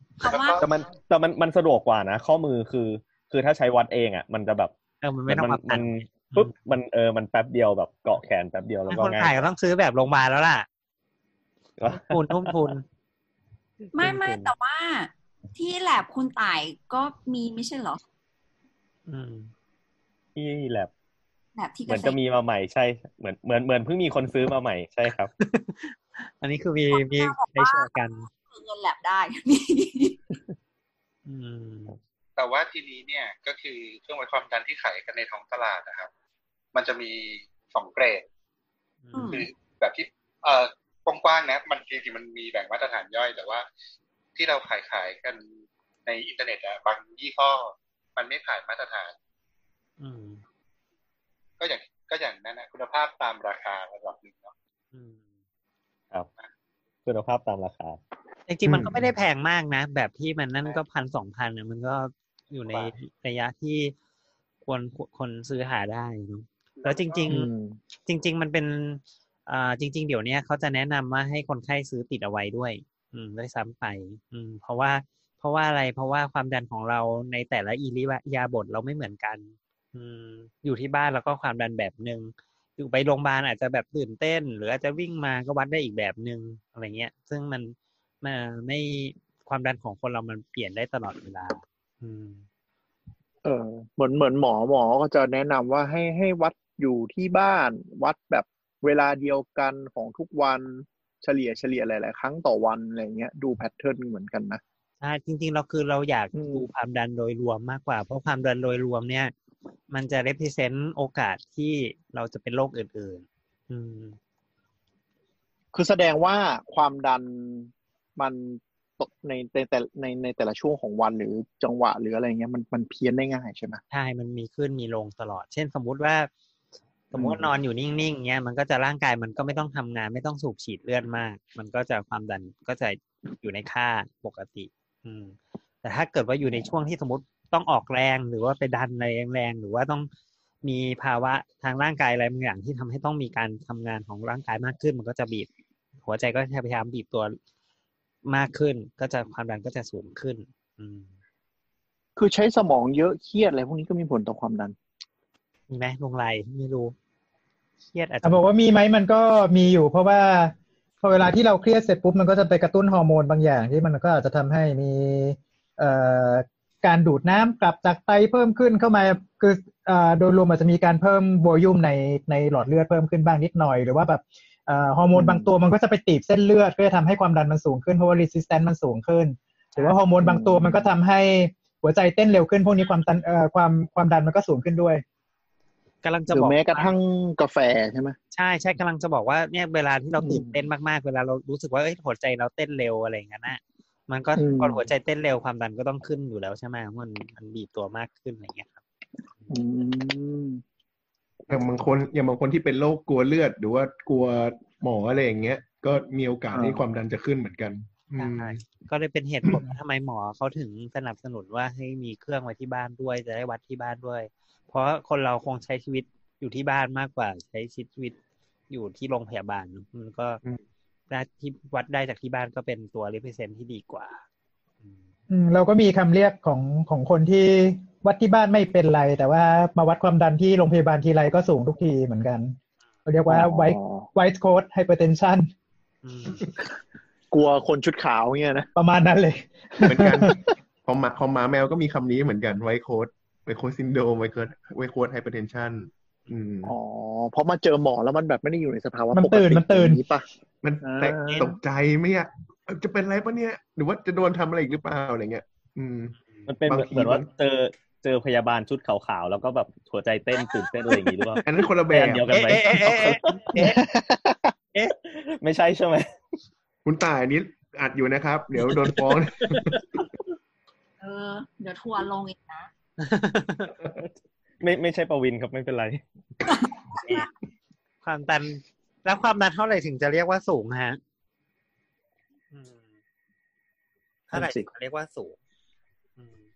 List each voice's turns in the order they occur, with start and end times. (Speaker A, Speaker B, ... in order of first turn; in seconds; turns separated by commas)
Speaker A: 0.2-0.6, Speaker B: 0.2-0.7, Speaker C: 0.6-4.7, Speaker D: 5.0-6.5, Speaker C: 5.3-9.5, Speaker D: 8.9-10.7, Speaker C: 11.8-12.7, Speaker D: 11.9-12.8, Speaker A: 13.9-18.0, Speaker C: 14.0-14.5, Speaker D: 19.1-19.5, Speaker C: 20.3-20.9, Speaker A: 21.6-22.2, Speaker C: 21.9-25.3, Speaker D: 25.4-28.3, Speaker A: 26.9-30.2, Speaker D: 31.2-32.0, Speaker B: 32.4-36.1, Speaker B: 36.7-38.2, Speaker D: 39.0-39.4, Speaker A: 39.1-39.5, Speaker B: 39.3-43.6, Speaker B: 44.3-45.4, Speaker B: 46.0-49.1, Speaker D: 50.0-50.4, Speaker B: 51.6-54.5, Speaker D: 54.9-55.2, Speaker C: 57.0-58.0, Speaker D: 58.5-63.9, Speaker E: 58.7-59.0, Speaker D: 64.6-67.5, Speaker B: 66.8-67.3, Speaker F: 67.3-67.8, Speaker D: 68.0-92.4, Speaker F: 93.4-104.6, Speaker D: 105.0-109.3, Speaker F: 106.3-106.7, Speaker D: 109.9-114.2, Speaker F: 115.7-123.8, Speaker D: 123.9-126.3, Speaker D: 127.1-140.1, Speaker F: 127.1-127.5, Speaker D: 140.6-145.5, Speaker D: 146.0-147.4, Speaker D: 148.2-151.1, Speaker F: 152.2-154.8, Speaker D: 155.7-156.9, Speaker D: 157.9-158.4, Speaker G: 158.2-185.0, Speaker F: 175.1-175.5, Speaker F: 180.2-180.9, Speaker D: 186.0-186.9, Speaker F: 186.3-188.2, Speaker D: 188.3-198.8, Speaker F: 190.2-190.6, Speaker F: 194.3-194.8, Speaker F: 199.5-200.6, Speaker E: 201.5-208.6, Speaker F: 206.5-206.8, Speaker D: 208.2-218.2, Speaker D: 218.7-220.4, Speaker D: 221.1-224.2, Speaker G: 225.3-235.5, Speaker F: 233.3-234.1, Speaker D: 236.0-236.4, Speaker F: 237.3-238.7, Speaker G: 238.7-240.3, Speaker E: 239.8-246.7, Speaker F: 246.6-250.2, Speaker G: 249.1-250.0, Speaker E: 250.6-257.3, Speaker F: 250.8-251.5, Speaker D: 251.3-251.5, Speaker C: 256.5-263.5, Speaker E: 261.4-262.3, Speaker D: 262.3-263.8, Speaker F: 263.6-264.5, Speaker C: 265.0-266.1, Speaker E: 266.8-269.8, Speaker A: 271.0-272.7, Speaker D: 273.0-273.7, Speaker C: 274.6-276.0, Speaker A: 276.5-277.2, Speaker D: 278.0-281.0, Speaker D: 282.5-282.8, Speaker D: 284.3-285.4, Speaker F: 284.3-284.7